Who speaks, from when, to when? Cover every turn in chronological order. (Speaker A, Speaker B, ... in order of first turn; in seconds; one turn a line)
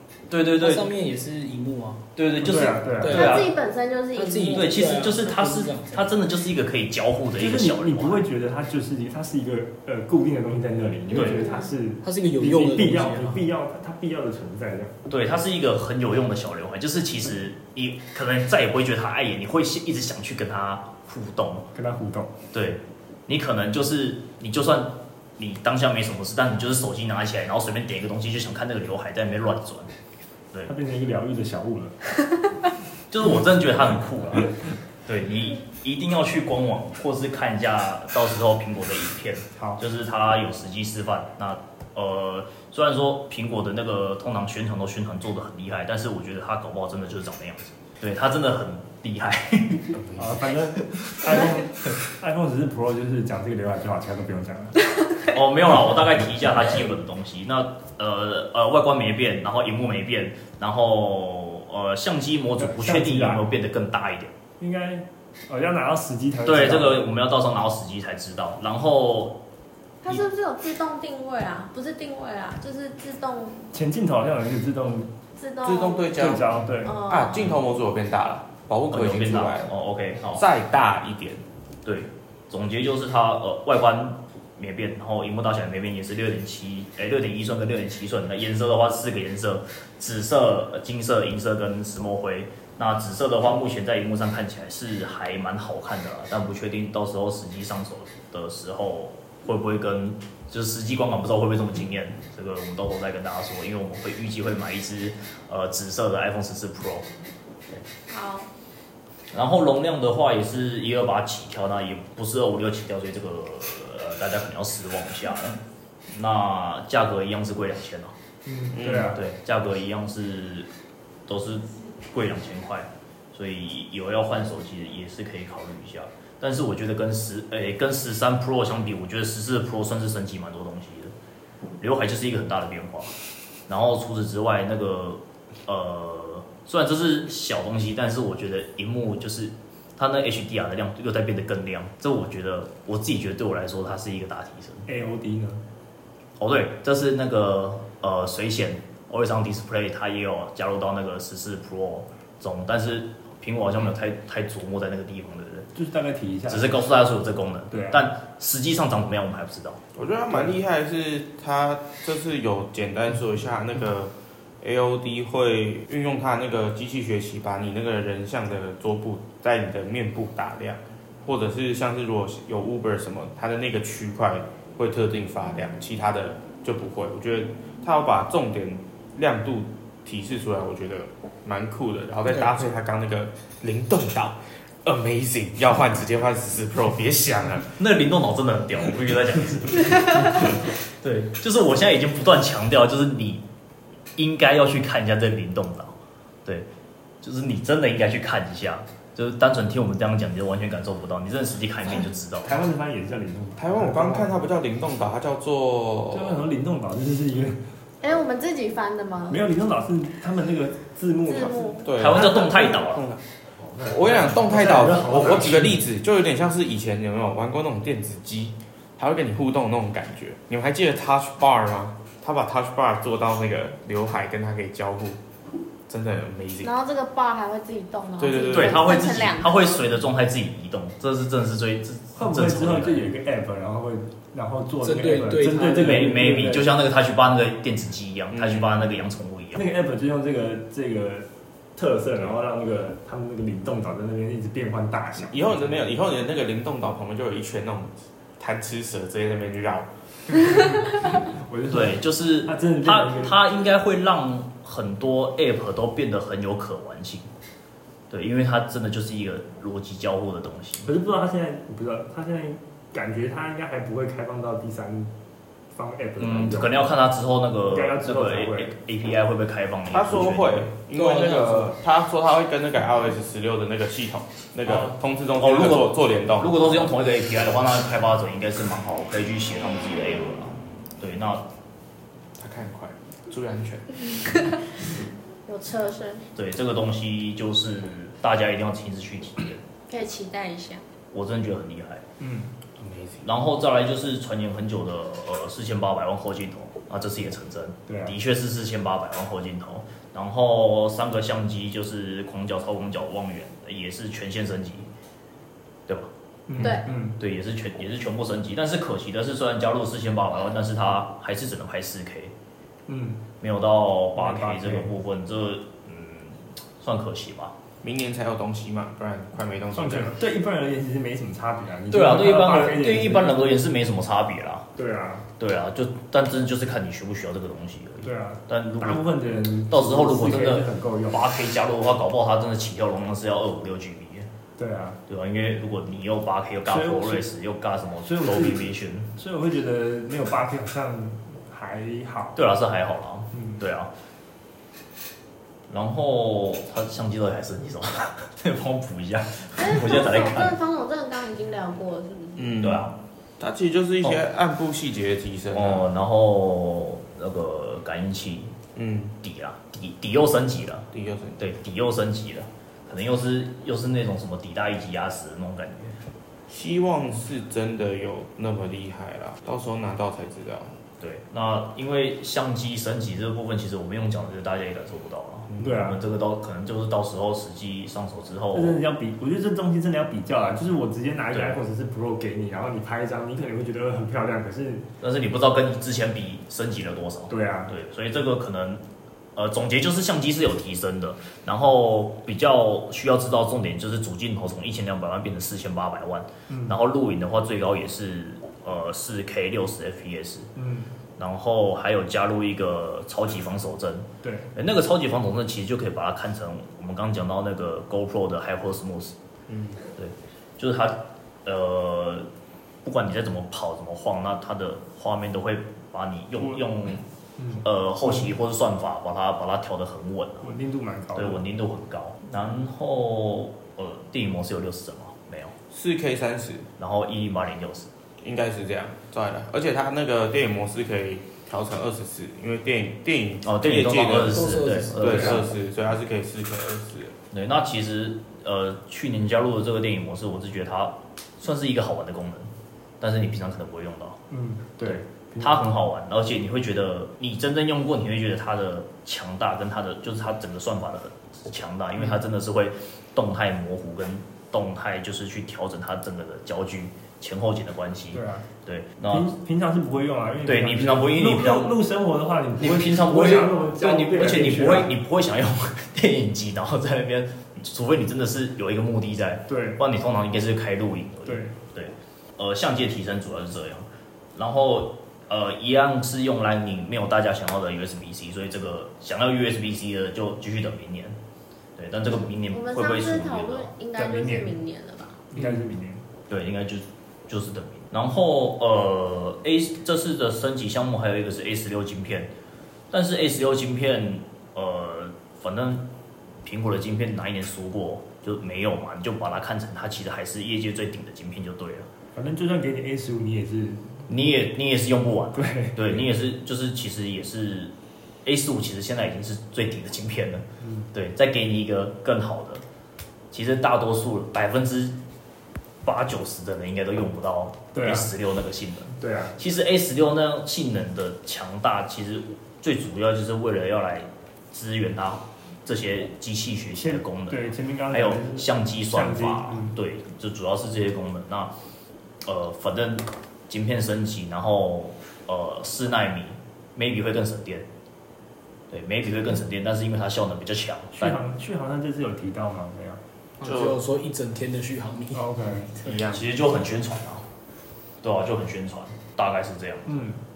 Speaker A: 0.3-0.9
Speaker B: 0.6-2.0
Speaker A: 2.1-3.5
Speaker C: 2.4-3.3
Speaker B: 3.0-3.4
Speaker D: 3.1-4.9
Speaker B: 4.1-6.1
Speaker A: 4.5-8.2
Speaker C: 7.4-14.9
Speaker A: 11.1-11.4
Speaker D: 11.2-11.7
Speaker B: 12.0-13.4
Speaker A: 15.1-21.7
Speaker C: 21.7-22.3
Speaker A: 22.5-29.9
Speaker C: 30.7-31.9
Speaker A: 33.1-34.5
Speaker A: 35.0-50.0
Speaker E: 50.0-50.3
Speaker C: 50.1-54.7
Speaker A: 55.3-64.3
Speaker C: 62.6-63.4
Speaker C: 64.6-67.1
Speaker A: 66.4-69.4
Speaker D: 70.0-73.7
Speaker C: 73.7-75.1
Speaker D: 75.4-76.2
Speaker E: 75.6-76.4
Speaker C: 76.2-77.0
Speaker D: 76.8-77.5
Speaker E: 77.1-79.7
Speaker A: 78.9-80.4
Speaker E: 80.3-81.4
Speaker A: 81.8-107.1
Speaker D: 108.1-108.5
Speaker A: 109.3-115.6
Speaker A: 116.1-118.1
Speaker C: 118.5-119.2
Speaker E: 118.7-119.2
Speaker A: 118.9-120.7
Speaker A: 121.3-131.1
Speaker A: 131.8-133.1
Speaker A: 133.7-144.9
Speaker C: 144.9-145.6
Speaker A: 146.4-155.7
Speaker C: 155.7-156.8
Speaker A: 156.5-159.8
Speaker C: 157.7-158.0
Speaker E: 159.9-187.8
Speaker B: 182.3-182.7
Speaker A: 187.8-193.4
Speaker A: 194.2-196.7
Speaker A: 197.2-202.6
Speaker C: 201.9-204.3
Speaker E: 203.6-206.5
Speaker C: 206.1-207.6
Speaker D: 208.0-209.4
Speaker C: 209.3-212.8
Speaker D: 211.3-211.9
Speaker E: 211.8-213.2
Speaker A: 212.0-213.1
Speaker C: 213.6-215.8
Speaker E: 213.8-225.2
Speaker E: 225.9-226.7
Speaker D: 226.6-229.8
Speaker E: 228.2-228.8
Speaker A: 228.5-233.1
Speaker C: 232.2-236.7
Speaker B: 234.8-236.2
Speaker A: 235.8-239.6
Speaker E: 238.3-238.9
Speaker C: 239.5-245.6
Speaker E: 245.2-249.9
Speaker C: 251.3-253.3
Speaker A: 251.7-257.3
Speaker A: 258.1-260.9
Speaker C: 260.9-265.1
Speaker C: 265.7-266.9
Speaker A: 266.2-270.7
Speaker C: 267.6-268.7
Speaker E: 269.9-276.9
Speaker B: 270.9-271.7
Speaker A: 274.6-281.5
Speaker E: 282.4-283.9
Speaker D: 285.4-286.2
Speaker A: 286.4-289.6
Speaker D: 289.9-290.8
Speaker A: 291.1-292.0
Speaker C: 292.2-292.5
Speaker E: 292.8-293.2
Speaker A: 293.2-304.9
Speaker C: 297.9-298.1
Speaker A: 305.9-312.3
Speaker C: 306.5-307.2
Speaker D: 306.6-306.9
Speaker C: 312.9-313.2
Speaker A: 313.4-317.5
Speaker C: 314.2-314.9
Speaker E: 317.8-320.2
Speaker C: 319.7-323.4
Speaker A: 321.9-324.7
Speaker C: 324.8-325.3
Speaker A: 325.4-329.1
Speaker C: 328.0-331.2
Speaker A: 329.7-334.3
Speaker C: 334.6-335.0
Speaker A: 335.1-339.1
Speaker C: 336.7-337.2
Speaker C: 338.1-342.4
Speaker A: 342.4-343.9
Speaker C: 343.3-343.6
Speaker A: 345.7-350.6
Speaker D: 349.6-352.5
Speaker E: 352.4-355.9
Speaker A: 352.6-353.0
Speaker A: 355.5-358.6
Speaker E: 358.8-359.2
Speaker A: 359.2-360.9
Speaker E: 360.9-361.4
Speaker A: 361.4-366.0
Speaker E: 366.5-370.8
Speaker A: 371.0-378.8
Speaker C: 375.6-376.0
Speaker C: 378.5-384.9
Speaker A: 381.3-381.6
Speaker A: 385.0-388.8
Speaker C: 387.3-387.7
Speaker A: 389.4-400.5
Speaker C: 396.5-396.8
Speaker C: 400.6-400.9
Speaker A: 401.2-409.1
Speaker C: 404.2-404.5
Speaker E: 409.5-409.8
Speaker A: 410.0-412.3
Speaker A: 412.8-417.0
Speaker C: 417.4-418.3
Speaker A: 417.6-420.5
Speaker C: 420.4-421.4
Speaker A: 421.1-425.6
Speaker E: 425.7-426.7
Speaker A: 426.8-427.9
Speaker E: 428.2-437.1
Speaker A: 433.4-435.4
Speaker B: 434.3-435.4
Speaker A: 437.3-444.2
Speaker C: 444.3-445.7
Speaker A: 444.8-459.3
Speaker C: 458.1-458.5
Speaker C: 459.1-464.9
Speaker A: 460.4-461.8
Speaker A: 462.6-481.2
Speaker C: 469.5-469.8
Speaker C: 471.3-471.6
Speaker A: 481.8-483.7
Speaker D: 482.5-485.2
Speaker C: 483.9-484.5
Speaker C: 485.3-486.1
Speaker A: 486.3-492.3
Speaker A: 492.9-495.9
Speaker A: 496.4-501.9
Speaker C: 502.1-504.0
Speaker A: 504.1-507.7
Speaker C: 505.3-506.1
Speaker A: 508.2-512.6
Speaker C: 510.6-510.9
Speaker A: 513.3-515.0
Speaker A: 515.8-531.5
Speaker C: 517.7-518.1
Speaker C: 519.0-519.4
Speaker C: 526.8-529.8
Speaker A: 532.2-537.6
Speaker A: 538.7-541.2
Speaker C: 541.0-543.0
Speaker B: 543.4-546.0
Speaker E: 543.4-543.8
Speaker C: 545.1-545.7
Speaker E: 545.8-546.2
Speaker A: 546.1-547.3
Speaker A: 548.0-550.0
Speaker C: 549.9-550.2